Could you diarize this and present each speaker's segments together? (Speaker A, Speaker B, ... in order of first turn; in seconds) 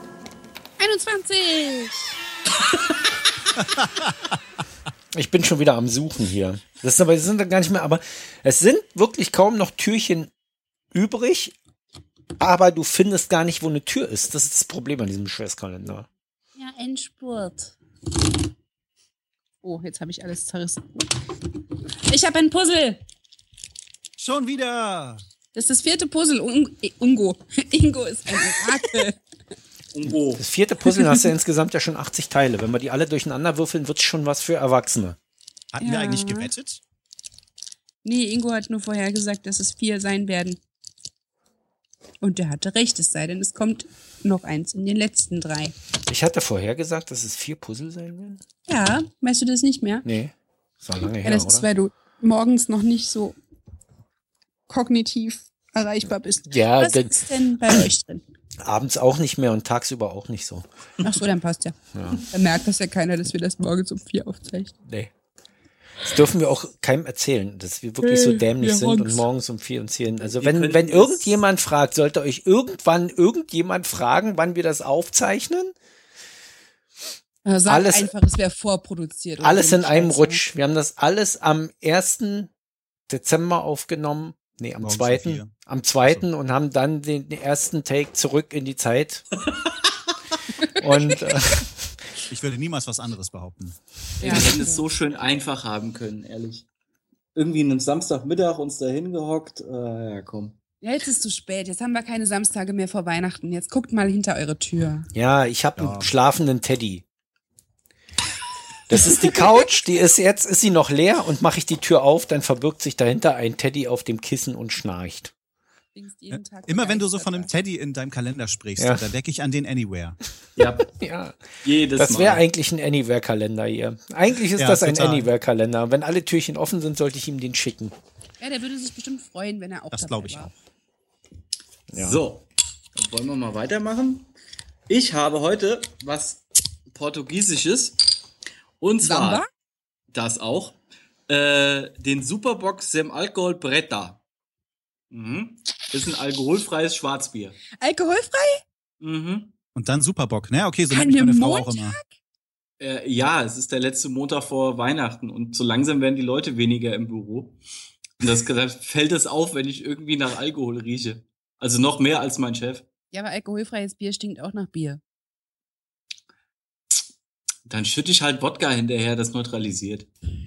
Speaker A: 0.8-2.2, 16.6-17.7, 19.6-21.1, 22.1-23.0, 25.5-29.2, 30.9-31.3, 35.8-36.5, 38.0-40.6, 42.2-45.7, 48.7-50.0, 51.2-53.4, 54.7-58.2, 61.0-61.7, 62.3-64.7, 68.0-69.2, 77.4-80.4, 90.8-91.1, 94.2-94.8, 100.8-105.1, 115.9-117.5, 128.4-130.5, 139.0-139.4, 147.8-148.6, 150.9-152.1, 163.1-165.0
Speaker B: 5.1-10.3, 10.9-11.6, 12.4-16.1, 30.3-35.2, 46.1-48.4, 50.0-51.7, 56.5-57.7, 58.6-60.6, 61.9-62.2, 64.8-65.1, 66.0-75.7, 77.7-78.1, 79.4-82.5, 83.1-89.2, 90.8-91.8, 105.1-107.0, 108.9-115.3, 118.8-119.0, 120.9-121.4, 122.0-127.9, 131.9-132.2
Speaker C: 24.2-25.2, 35.7-36.8, 84.8-85.5, 92.3-93.8, 105.8-106.1, 116.3-120.2, 124.5-125.3, 129.9-130.5, 149.7-151.9
Speaker D: 29.9-30.4, 70.4-71.4, 94.2-96.6, 97.3-100.5, 120.6-120.9, 121.6-122.4, 131.9-134.3, 134.9-138.0, 138.8-139.4, 140.1-144.2, 145.1-147.6, 149.0-149.5, 152.8-157.6, 158.2-162.8, 167.7-170.1